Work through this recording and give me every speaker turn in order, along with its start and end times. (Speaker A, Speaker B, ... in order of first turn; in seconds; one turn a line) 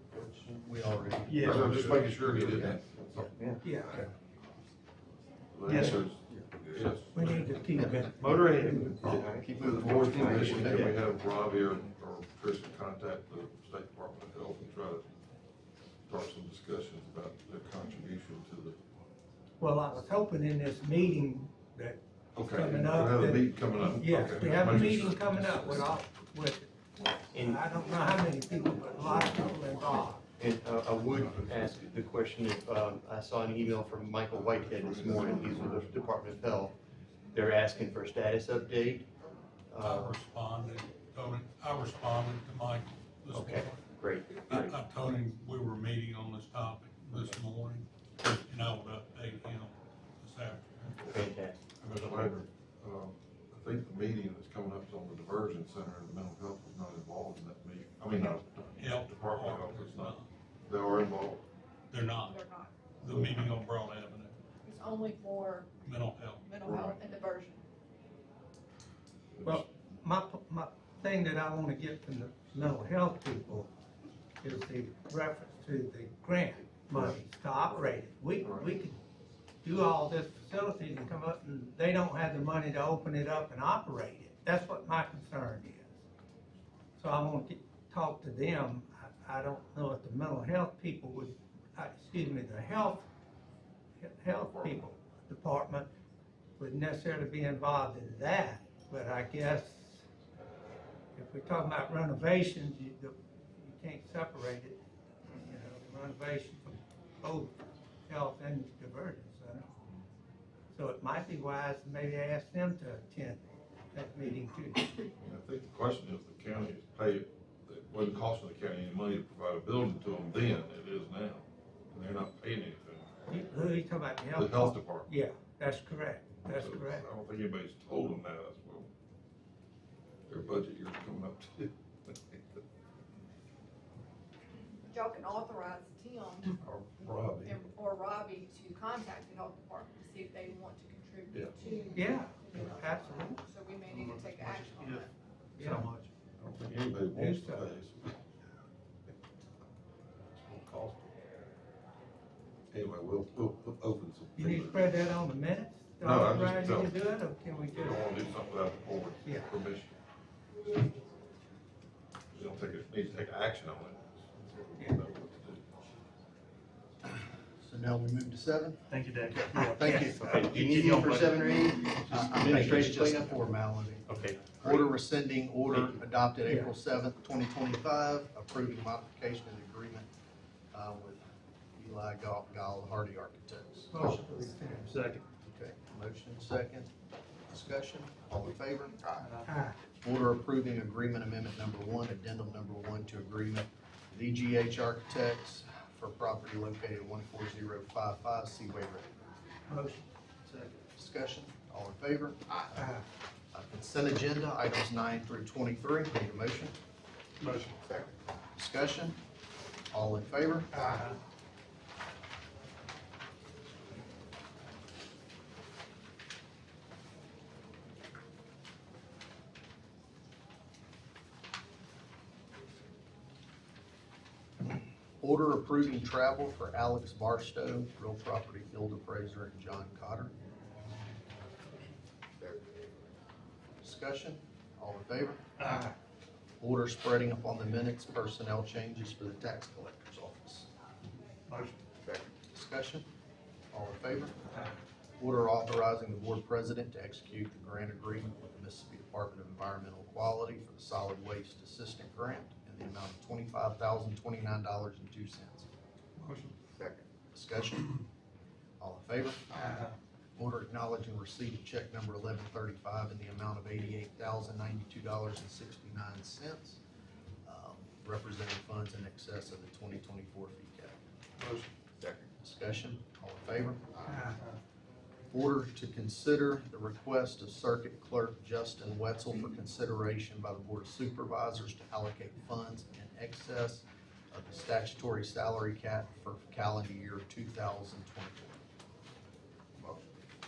Speaker A: 0.1-2.8
Speaker B: 1.3-1.6
Speaker C: 1.4-3.3
Speaker D: 1.4-3.6
Speaker E: 3.6-4.1
Speaker A: 3.9-4.1
Speaker C: 5.5-7.3
Speaker B: 5.7-6.0
Speaker D: 5.9-6.4
Speaker E: 7.1-9.1
Speaker D: 8.0-11.0
Speaker C: 9.0-15.1
Speaker A: 9.6-10.9
Speaker C: 16.1-18.8
Speaker E: 19.6-26.7
Speaker C: 22.4-25.9
Speaker F: 24.6-25.0
Speaker D: 27.3-27.6
Speaker E: 27.3-30.2
Speaker D: 30.4-36.8
Speaker C: 35.0-35.8
Speaker D: 37.3-39.1
Speaker D: 39.7-40.2
Speaker F: 39.8-51.2
Speaker D: 43.3-44.8
Speaker D: 51.0-51.6
Speaker F: 51.8-52.2
Speaker C: 51.9-61.4
Speaker F: 58.8-60.3
Speaker F: 61.9-62.4
Speaker G: 62.2-62.8
Speaker F: 63.0-64.4
Speaker C: 63.1-63.5
Speaker G: 64.6-65.7
Speaker F: 65.8-66.5
Speaker G: 66.4-67.6
Speaker C: 66.6-67.0
Speaker E: 69.4-73.7
Speaker E: 74.4-79.0
Speaker E: 79.6-86.0
Speaker E: 87.0-93.1
Speaker E: 94.0-95.9
Speaker E: 96.6-100.0
Speaker E: 101.2-109.7
Speaker E: 110.7-114.9
Speaker C: 115.2-123.1
Speaker E: 123.3-127.0
Speaker C: 124.3-125.1
Speaker C: 126.5-128.9
Speaker C: 130.3-132.6
Speaker G: 134.9-136.5
Speaker C: 136.6-137.6
Speaker G: 137.4-142.8
Speaker C: 141.3-141.6
Speaker E: 141.9-143.4
Speaker G: 143.4-145.1
Speaker B: 143.9-145.0
Speaker E: 145.6-145.9
Speaker B: 145.6-146.1
Speaker C: 146.4-148.2
Speaker E: 147.1-147.8
Speaker C: 150.3-151.1
Speaker C: 152.7-155.0
Speaker E: 154.4-158.0
Speaker C: 156.0-157.0
Speaker C: 157.7-159.9
Speaker E: 159.2-159.5
Speaker C: 162.3-165.7
Speaker E: 164.8-165.0
Speaker A: 167.0-168.9
Speaker B: 168.9-171.6
Speaker A: 169.5-180.1
Speaker E: 169.5-170.2
Speaker D: 170.0-173.4
Speaker B: 172.1-172.8
Speaker D: 174.1-174.9
Speaker E: 176.4-176.7
Speaker A: 180.7-184.3
Speaker E: 183.9-185.0
Speaker B: 184.9-185.2
Speaker A: 185.4-186.9
Speaker A: 187.5-189.2
Speaker B: 189.2-189.5
Speaker E: 189.4-189.8
Speaker A: 190.0-199.2
Speaker E: 199.7-200.0
Speaker A: 200.9-202.9
Speaker E: 202.8-203.1
Speaker A: 203.5-206.8
Speaker B: 207.4-207.8
Speaker A: 208.6-209.2
Speaker A: 209.9-211.0
Speaker E: 210.7-211.2
Speaker A: 225.2-230.3
Speaker A: 233.8-235.5
Speaker E: 235.7-235.9
Speaker A: 236.6-240.7
Speaker A: 242.5-243.1
Speaker A: 243.7-244.5
Speaker A: 245.2-255.7
Speaker A: 257.3-258.0
Speaker A: 258.8-259.8
Speaker E: 259.6-259.9
Speaker A: 260.4-266.8
Speaker A: 267.4-271.0
Speaker A: 272.4-274.2
Speaker E: 274.1-274.4
Speaker A: 275.3-288.6